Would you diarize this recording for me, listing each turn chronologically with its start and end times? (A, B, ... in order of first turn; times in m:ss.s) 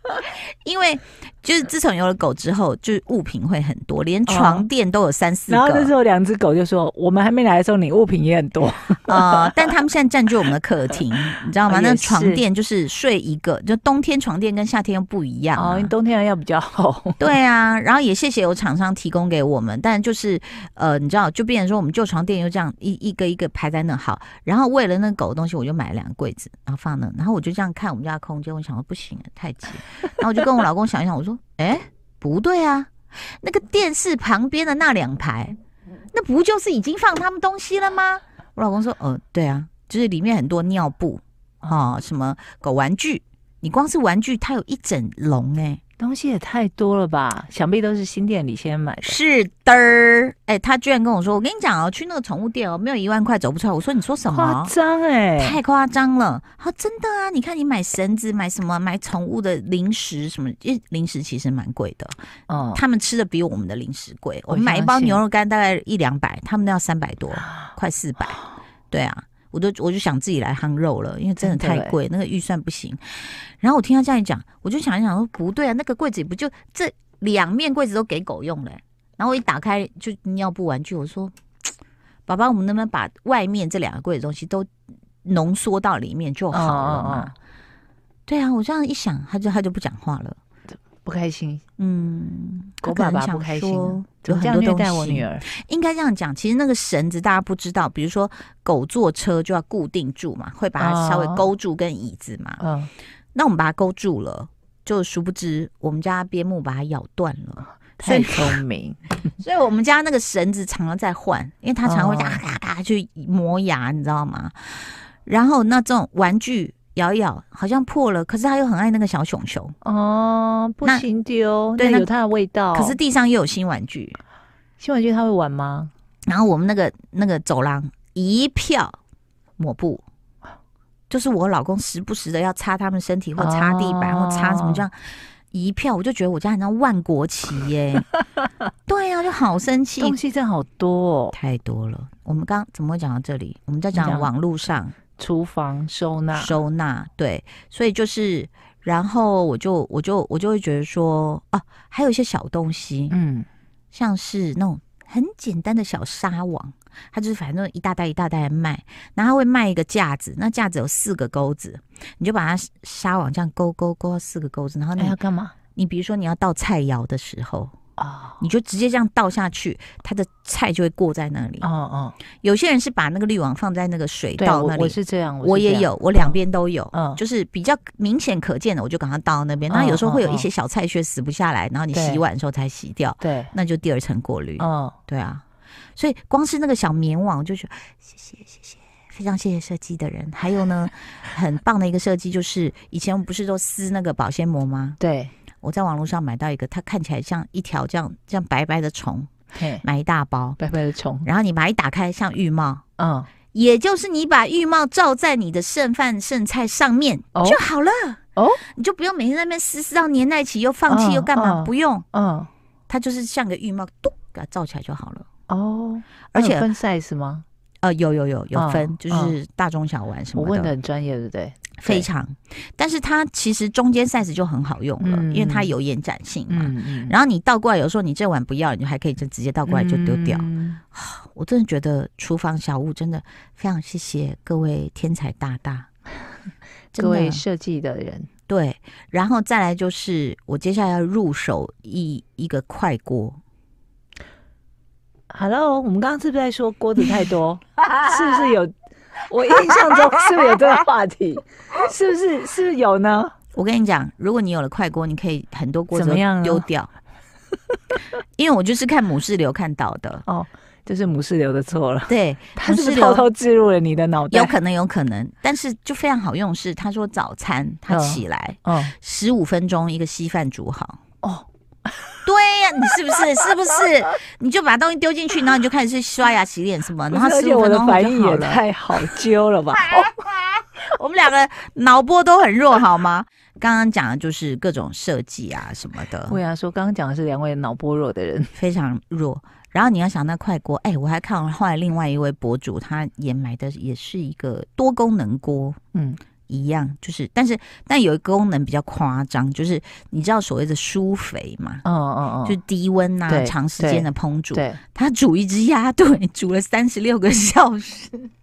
0:00.3-0:05.9 A
0:04.3-0:04.7 B
0:05.5-0:09.7 B
0:09.1-0:15.9 A
0:11.7-0:12.4 B
0:15.5-0:17.3 B
0:17.2-0:35.6 A
0:36.1-0:45.8 A
0:41.6-0:42.0 B
0:46.0-0:49.2 B
0:49.0-0:54.7 A
0:54.2-0:55.6 B
0:55.4-1:02.2 A
1:02.5-1:02.8 B
1:02.7-1:08.4 A
1:04.5-1:05.2 B
1:08.9-1:21.4 A
1:11.4-1:12.0 B
1:22.3-1:24.7 A
1:25.2-1:27.3 A
1:26.5-1:27.3 B
1:28.3-1:30.4 A
1:31.0-1:31.6 B
1:31.8-1:42.6 A
1:32.8-1:35.4 B
1:40.8-1:41.5 B
1:42.6-1:42.9 B
1:43.4-1:48.6 A
1:48.0-1:49.3 B
1:49.4-1:59.7 A
1:51.8-1:52.4 B
1:59.8-2:03.0 B
2:01.8-2:02.1 A
2:02.7-2:04.2 A
2:04.8-2:05.9 B
2:06.3-2:09.0 A
2:09.6-2:10.0 A
2:11.1-2:18.1 A
2:13.4-2:14.9 B
2:18.9-2:20.2 A
2:20.0-2:21.4 B
2:21.3-2:25.0 A
2:23.9-2:24.3 B
2:25.2-2:26.5 B
2:26.3-2:33.2 A
2:33.1-2:33.5 B
2:33.9-2:45.2 A
2:45.0-2:45.5 B
2:45.8-2:47.7 A
2:48.0-2:48.4 B
2:48.4-2:51.7 A
2:51.6-2:52.2 B
2:52.4-3:05.4 A
2:54.4-2:56.0 B
2:56.9-2:57.2 B
2:59.7-3:00.5 B
3:01.9-3:02.2 B
3:03.2-3:03.5 B
3:04.6-3:05.0 B
3:06.0-3:15.0 A
3:15.0-3:15.3 B
3:15.6-3:20.6 A
3:19.6-3:19.8 B
3:20.6-3:21.3 B
3:21.2-3:22.8 A
3:23.0-3:23.3 B
3:23.5-3:28.2 A
3:27.4-3:27.6 B
3:28.4-3:28.6 B
3:28.7-3:32.1 A
3:30.9-3:32.5 B
3:32.9-3:35.3 A
3:35.5-3:37.4 B
3:36.3-3:36.7 A
3:37.8-3:40.7 A
3:38.6-3:39.4 B
3:40.4-3:42.1 B
3:41.8-3:55.9 A
3:45.0-3:45.7 B
3:46.5-3:47.2 B
3:49.7-3:50.8 B
3:56.9-3:58.3 B
3:57.0-3:57.4 A
3:58.5-4:03.4 A
4:05.3-4:08.7 B
4:09.3-4:13.3 B
4:13.5-4:16.9 A
4:15.9-4:16.7 B
4:18.4-4:20.2 A
4:20.3-4:24.6 B
4:22.1-4:23.3 A
4:24.3-4:31.0 A
4:27.9-4:28.9 B
4:32.3-4:38.6 A
4:37.1-4:40.1 B
4:39.9-4:46.4 A
4:46.3-4:48.6 B
4:48.6-4:55.8 A
4:55.9-4:56.2 B
4:56.5-5:01.8 A
5:01.8-5:02.6 B
5:02.4-5:08.3 A
5:03.3-5:04.8 B